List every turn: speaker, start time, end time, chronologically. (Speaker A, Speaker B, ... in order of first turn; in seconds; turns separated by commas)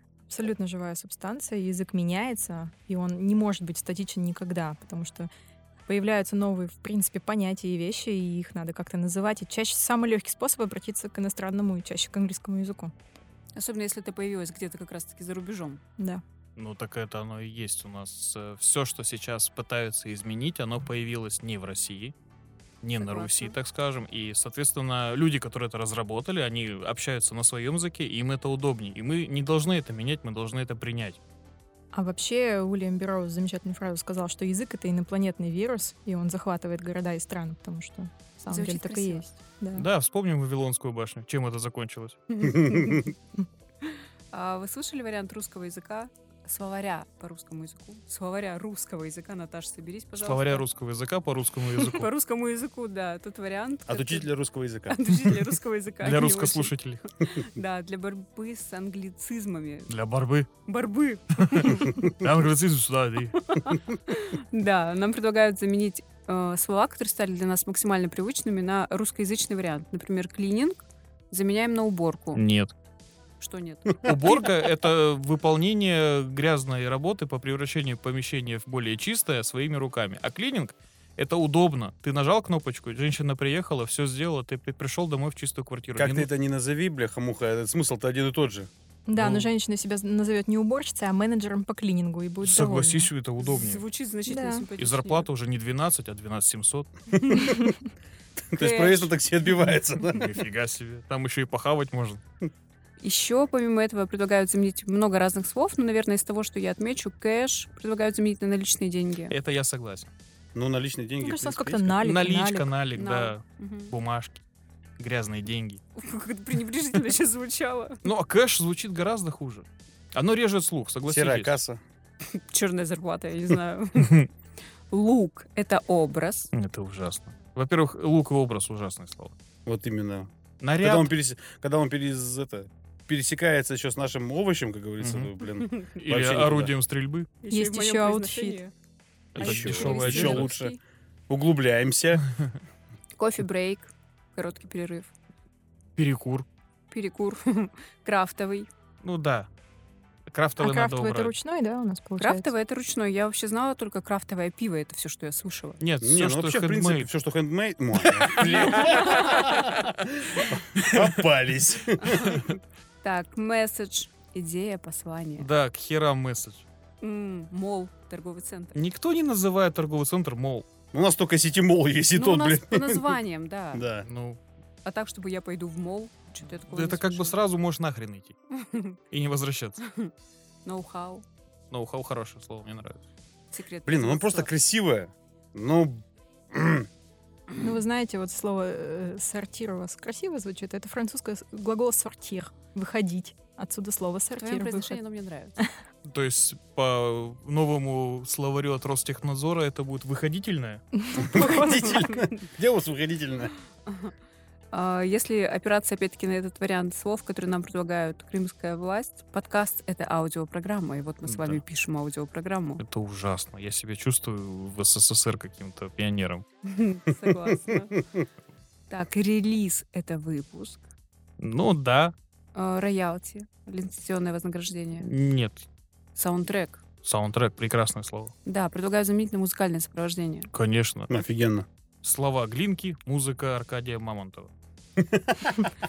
Speaker A: 0.3-5.3, Speaker A: 5.9-12.9, Speaker B: 13.6-15.8, Speaker C: 16.6-22.1, Speaker C: 22.8-31.2, Speaker B: 23.0-23.6, Speaker A: 31.9-39.9, Speaker B: 38.5-39.2, Speaker C: 39.8-42.2, Speaker B: 42.3-43.1, Speaker D: 42.4-43.1, Speaker B: 43.8-50.6, Speaker C: 50.2-52.1, Speaker B: 51.7-54.3, Speaker D: 53.9-55.3, Speaker B: 54.9-59.9, Speaker C: 56.0-57.1, Speaker C: 59.9-60.5, Speaker B: 60.7-62.1, Speaker C: 61.5-63.4, Speaker B: 63.4-72.4, Speaker C: 72.3-72.7, Speaker B: 73.4-74.7, Speaker C: 74.0-86.3, Speaker D: 86.0-88.7, Speaker A: 89.1-93.1, Speaker C: 89.2-89.5, Speaker C: 92.4-93.8, Speaker B: 93.4-95.3, Speaker A: 94.3-94.7, Speaker C: 94.8-96.9, Speaker D: 97.3-97.7, Speaker A: 97.4-97.7, Speaker D: 98.4-100.4, Speaker B: 98.6-99.1, Speaker C: 100.1-102.2, Speaker B: 103.0-109.3, Speaker C: 109.3-110.1, Speaker D: 110.5-112.0, Speaker A: 111.2-112.7, Speaker C: 112.0-114.4, Speaker B: 112.9-113.9, Speaker C: 115.0-115.8, Speaker B: 116.0-118.0, Speaker C: 118.0-121.6, Speaker D: 121.1-121.8, Speaker B: 122.3-124.3, Speaker C: 124.0-124.2, Speaker B: 124.9-126.5, Speaker C: 126.5-129.3, Speaker D: 129.7-136.7, Speaker C: 130.6-131.1, Speaker C: 135.0-135.3, Speaker B: 135.7-136.0, Speaker C: 135.9-137.3, Speaker B: 137.4-138.7, Speaker A: 137.5-138.6, Speaker C: 139.3-140.6, Speaker D: 139.4-140.8, Speaker B: 139.4-140.8, Speaker D: 141.3-142.2, Speaker B: 143.2-145.1, Speaker C: 146.0-146.5, Speaker B: 146.9-148.7, Speaker C: 149.0-149.5, Speaker C: 150.3-151.3, Speaker A: 150.6-152.5, Speaker B: 152.2-155.8, Speaker C: 155.8-157.1, Speaker D: 156.0-162.4, Speaker C: 158.1-159.4, Speaker B: 158.4-159.5, Speaker C: 160.8-161.1, Speaker B: 163.0-165.5, Speaker C: 165.4-166.7, Speaker B: 167.0-168.8, Speaker C: 168.7-170.7, Speaker D: 170.9-173.2, Speaker B: 172.2-173.8, Speaker D: 173.7-174.1, Speaker C: 174.0-174.4, Speaker B: 174.8-177.4, Speaker C: 176.7-178.3, Speaker B: 178.6-179.0, Speaker C: 179.1-179.8, Speaker B: 179.8-180.1, Speaker B: 180.7-181.2, Speaker C: 181.7-183.0, Speaker B: 183.5-184.5, Speaker D: 183.9-186.9, Speaker A: 187.6-195.0, Speaker B: 194.4-195.6, Speaker C: 196.1-200.8, Speaker A: 201.0-201.9, Speaker D: 201.2-203.5, Speaker B: 201.3-202.3, Speaker B: 203.9-204.1, Speaker B: 204.7-212.8, Speaker C: 211.2-211.6, Speaker C: 212.8-216.4, Speaker B: 216.7-218.0, Speaker B: 218.9-220.8, Speaker C: 221.4-222.2, Speaker B: 222.5-225.1, Speaker C: 225.0-225.7, Speaker B: 226.2-226.8, Speaker C: 227.0-228.3, Speaker B: 228.4-230.5, Speaker C: 230.5-231.1, Speaker D: 231.1-231.7, Speaker C: 232.0-234.5, Speaker D: 235.0-235.6